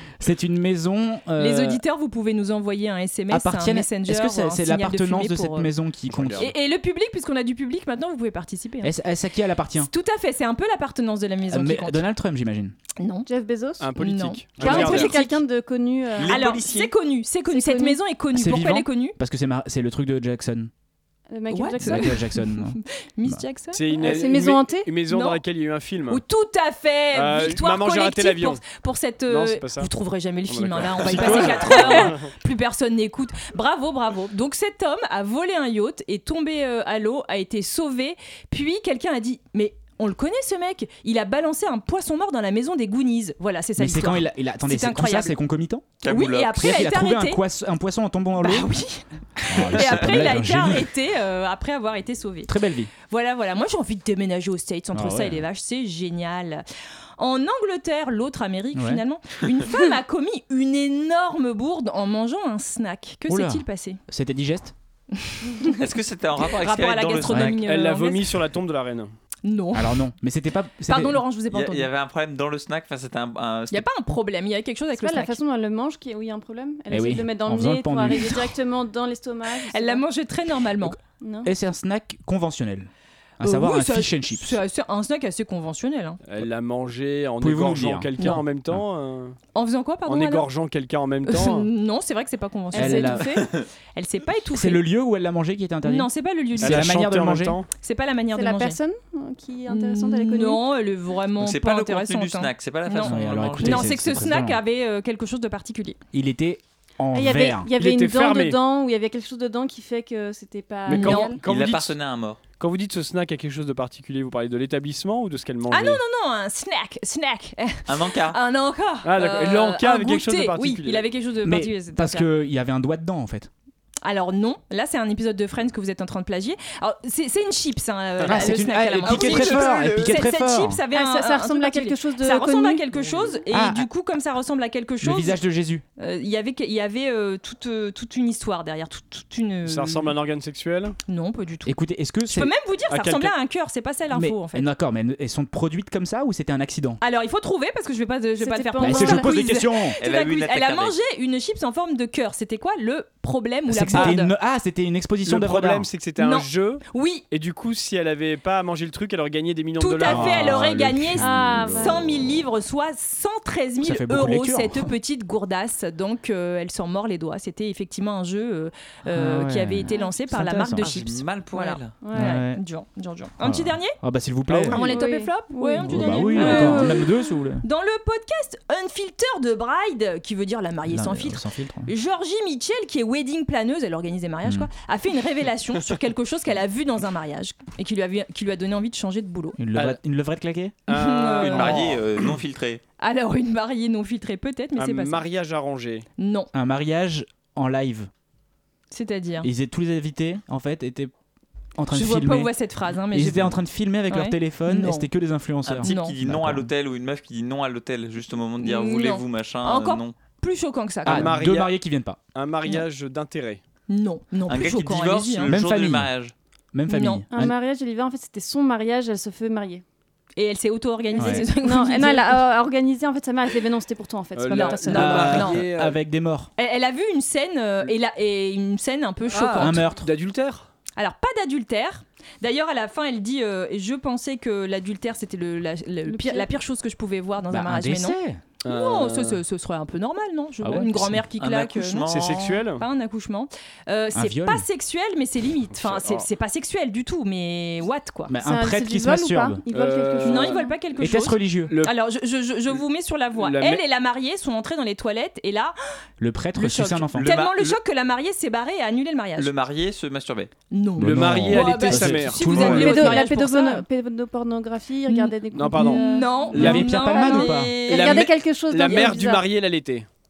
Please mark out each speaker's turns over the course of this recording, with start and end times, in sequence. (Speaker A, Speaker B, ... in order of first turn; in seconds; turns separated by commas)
Speaker A: 0.2-1.8, Speaker B: 1.4-5.7, Speaker A: 3.3-6.5, Speaker C: 6.1-6.5, Speaker B: 6.4-8.9, Speaker A: 8.8-9.9, Speaker B: 9.8-12.1, Speaker A: 11.5-12.7, Speaker B: 13.0-13.3, Speaker D: 13.3-13.9, Speaker C: 13.8-15.2, Speaker B: 13.9-15.4, Speaker D: 14.6-16.4, Speaker E: 16.1-16.9, Speaker B: 16.2-19.2, Speaker D: 17.5-18.0, Speaker A: 18.3-20.7, Speaker D: 21.3-22.3, Speaker B: 21.5-24.3, Speaker A: 21.8-23.4, Speaker C: 23.7-26.2, Speaker D: 24.0-24.9, Speaker B: 25.1-25.4, Speaker B: 26.1-45.4, Speaker C: 27.1-28.6, Speaker C: 29.3-29.9, Speaker C: 30.5-32.3, Speaker A: 43.8-45.9, Speaker E: 46.0-46.8, Speaker B: 46.0-47.4, Speaker A: 46.5-48.7, Speaker B: 48.4-56.6, Speaker A: 49.4-50.9, Speaker A: 52.5-52.9, Speaker A: 54.9-55.4, Speaker B: 57.2-64.0, Speaker A: 58.7-59.0, Speaker A: 63.3-64.7, Speaker B: 65.2-65.7, Speaker E: 65.8-67.5, Speaker B: 66.5-68.4, Speaker A: 67.2-67.6, Speaker C: 67.6-69.1, Speaker B: 69.4-70.0, Speaker A: 69.7-71.2, Speaker B: 70.9-71.9, Speaker E: 71.5-73.8, Speaker B: 73.7-75.4, Speaker D: 75.0-80.0, Speaker A: 76.9-78.2, Speaker B: 78.1-78.5, Speaker B: 79.7-81.0, Speaker A: 80.8-84.6, Speaker D: 81.2-81.5, Speaker B: 83.4-86.2, Speaker C: 86.2-89.4, Speaker A: 87.4-88.8, Speaker B: 88.2-88.4, Speaker B: 89.5-90.5, Speaker C: 90.0-91.7, Speaker B: 91.2-94.8, Speaker D: 92.7-93.4, Speaker A: 92.7-93.5, Speaker A: 94.5-97.6, Speaker B: 95.8-97.0, Speaker C: 96.6-97.7, Speaker B: 97.8-98.8, Speaker D: 98.3-100.6, Speaker B: 99.7-106.0, Speaker E: 101.4-104.0, Speaker A: 103.0-104.6, Speaker A: 106.1-107.7, Speaker D: 107.1-111.4, Speaker C: 107.8-108.6, Speaker C: 110.8-111.9, Speaker B: 110.9-111.4, Speaker E: 111.4-112.4, Speaker C: 112.6-116.0, Speaker B: 115.7-122.3, Speaker E: 117.9-118.4, Speaker C: 119.0-121.1, Speaker A: 121.4-123.5, Speaker B: 124.0-135.4, Speaker A: 128.3-130.8, Speaker E: 129.0-130.2, Speaker D: 130.9-132.8, Speaker C: 133.0-133.4, Speaker A: 133.5-133.8, Speaker A: 135.0-135.8, Speaker B: 136.0-140.2, Speaker C: 139.6-140.9, Speaker B: 141.1-141.7, Speaker A: 141.7-142.5, Speaker B: 142.3-144.7, Speaker C: 142.9-143.3, Speaker A: 144.1-147.0, Speaker B: 147.0-154.3, Speaker D: 148.4-149.6, Speaker A: 148.8-150.0, Speaker E: 150.0-150.9, Speaker A: 153.7-155.9, Speaker C: 155.2-161.9, Speaker B: 156.2-157.2, Speaker B: 159.8-174.0, Speaker A: 160.0-162.2, Speaker D: 161.2-162.0, Speaker A: 163.8-164.9, Speaker A: 169.1-170.9, Speaker E: 170.8-171.9, Speaker D: 172.0-172.4, Speaker A: 172.1-172.6, Speaker A: 173.4-174.8, Speaker C: 174.5-174.9, Speaker B: 174.7-189.6, Speaker D: 174.8-177.2, Speaker A: 175.8-177.6, Speaker A: 180.8-181.9, Speaker A: 189.6-190.8, Speaker C: 189.7-190.0, Speaker C: 190.9-192.0, Speaker B: 190.9-191.9, Speaker E: 191.4-192.8, Speaker B: 193.0-195.2, Speaker C: 194.8-196.1, Speaker B: 196.2-196.5, Speaker A: 196.5-198.1, Speaker B: 198.9-199.5, Speaker A: 199.4-201.1, Speaker A: 201.8-206.7, Speaker B: 201.9-205.1, Speaker E: 205.6-210.1, Speaker B: 205.8-206.2, Speaker B: 208.6-211.3, Speaker A: 211.0-212.2, Speaker C: 211.1-211.8, Speaker C: 212.3-213.6, Speaker B: 213.9-215.5, Speaker E: 214.5-216.3, Speaker A: 215.5-216.1, Speaker A: 216.7-217.5, Speaker B: 216.9-217.2, Speaker D: 217.3-219.8, Speaker B: 220.3-222.4, Speaker D: 221.1-225.3, Speaker A: 221.2-221.4, Speaker C: 224.3-226.0, Speaker B: 224.5-225.7, Speaker A: 224.9-226.5, Speaker B: 226.6-229.9, Speaker C: 229.3-230.7, Speaker A: 229.5-230.1, Speaker B: 231.0-248.3, Speaker D: 236.1-236.5, Speaker A: 237.5-238.4, Speaker C: 238.6-239.4, Speaker A: 240.6-241.2, Speaker E: 241.3-242.6, Speaker C: 242.0-242.8, Speaker A: 244.1-244.7, Speaker C: 245.8-246.3, Speaker A: 248.3-249.6, Speaker D: 248.4-250.8, Speaker C: 249.7-250.7, Speaker B: 250.2-255.7, Speaker A: 251.0-251.8, Speaker C: 251.7-251.9, Speaker C: 253.4-253.8, Speaker A: 256.2-257.4, Speaker B: 256.5-259.5, Speaker E: 257.1-257.8, Speaker E: 259.4-260.5, Speaker B: 260.7-263.8, Speaker A: 261.0-263.3, Speaker C: 261.0-263.1, Speaker D: 262.6-269.5, Speaker B: 265.1-268.3, Speaker C: 265.5-266.9, Speaker A: 266.5-267.9, Speaker C: 267.9-270.1, Speaker B: 268.8-269.3